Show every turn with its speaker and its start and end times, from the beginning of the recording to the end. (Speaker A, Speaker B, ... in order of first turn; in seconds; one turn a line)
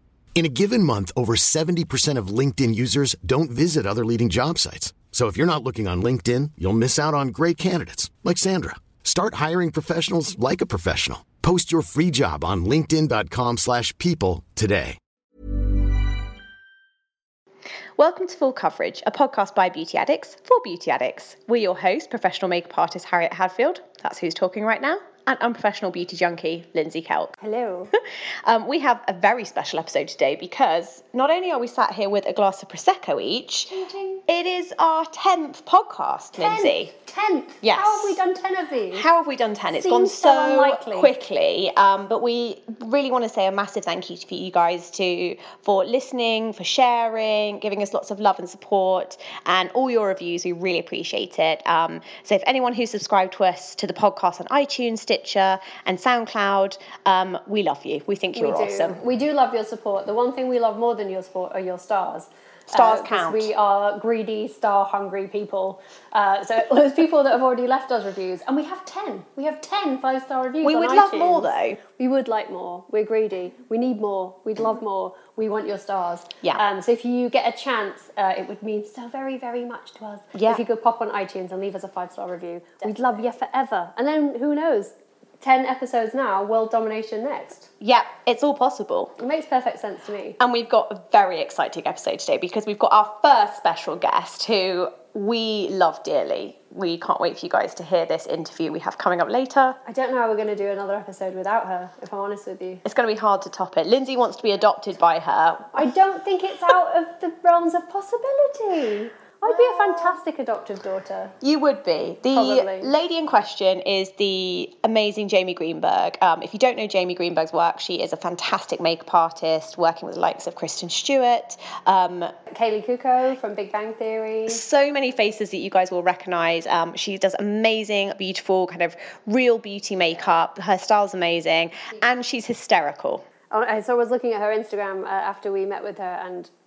Speaker A: 0.3-15.0
Speaker B: 18.0-27.4
Speaker C: 27.4-27.9
Speaker B: 28.4-36.9
Speaker C: 33.7-34.2
Speaker C: 36.4-39.1
Speaker B: 37.6-38.2
Speaker B: 38.9-59.0
Speaker C: 39.7-41.1
Speaker C: 58.4-87.7
Speaker B: 62.7-63.5
Speaker B: 70.6-71.8
Speaker B: 80.3-80.6
Speaker B: 87.8-89.2
Speaker C: 89.2-90.4
Speaker B: 90.4-99.8
Speaker C: 99.9-102.8
Speaker B: 102.8-105.9
Speaker C: 105.7-111.3
Speaker B: 109.4-110.2
Speaker B: 111.4-122.3
Speaker C: 112.3-112.9
Speaker C: 122.5-124.6
Speaker B: 124.5-133.2
Speaker C: 133.5-136.5